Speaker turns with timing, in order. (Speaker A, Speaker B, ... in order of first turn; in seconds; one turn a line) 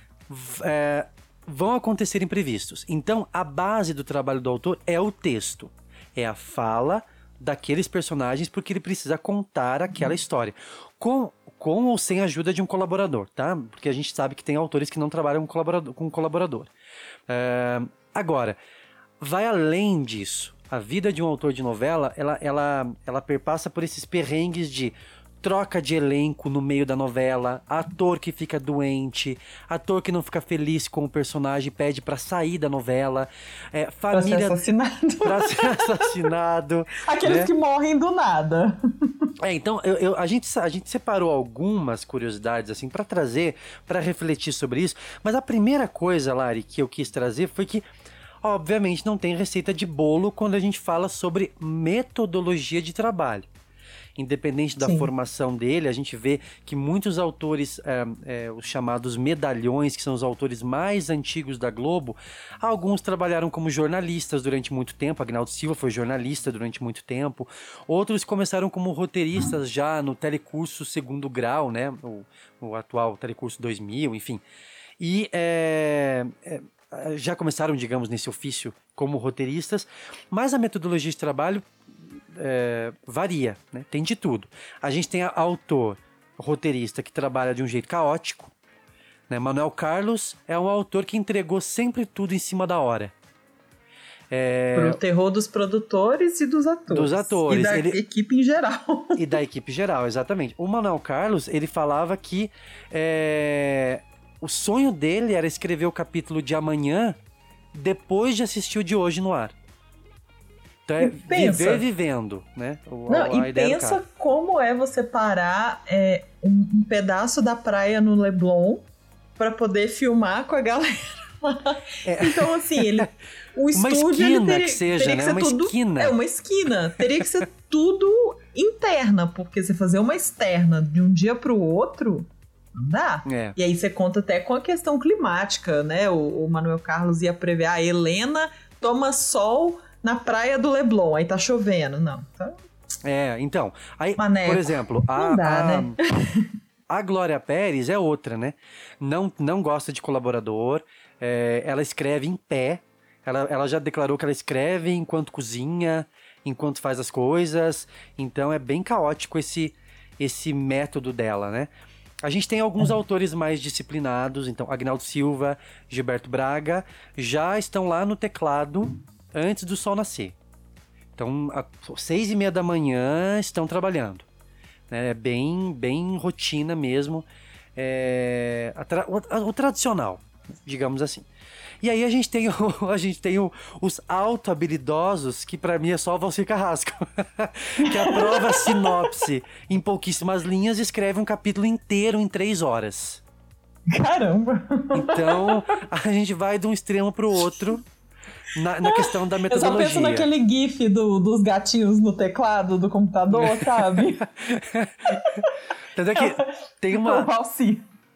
Speaker A: 0.3-16.7
Speaker A: 17.3-18.6
Speaker A: 19.2-34.6
Speaker B: 34.1-36.1
Speaker A: 35.2-37.5
Speaker B: 37.0-39.3
Speaker A: 39.4-47.9
Speaker A: 48.4-53.5
Speaker A: 54.2-74.4
Speaker B: 54.8-55.1
Speaker A: 75.0-88.5
Speaker A: 89.3-93.1
Speaker A: 94.3-95.0
Speaker B: 94.7-99.2
Speaker A: 96.9-98.0
Speaker A: 99.2-107.2
Speaker A: 107.7-109.5
Speaker A: 110.9-114.0
Speaker B: 111.0-111.8
Speaker B: 113.1-118.9
Speaker B: 119.4-142.6
Speaker A: 122.0-123.1
Speaker A: 123.7-126.2
Speaker A: 133.3-133.6
Speaker A: 143.1-146.0
Speaker B: 144.2-146.5
Speaker A: 146.9-161.7
Speaker A: 162.2-170.4
Speaker A: 171.2-174.3
Speaker A: 174.9-181.3
Speaker A: 181.8-193.2
Speaker B: 187.8-189.1
Speaker B: 193.9-195.7
Speaker A: 194.9-197.9
Speaker A: 198.5-200.3
Speaker B: 198.8-204.2
Speaker A: 203.3-205.4
Speaker B: 205.1-205.5
Speaker A: 205.9-207.3
Speaker B: 206.2-207.9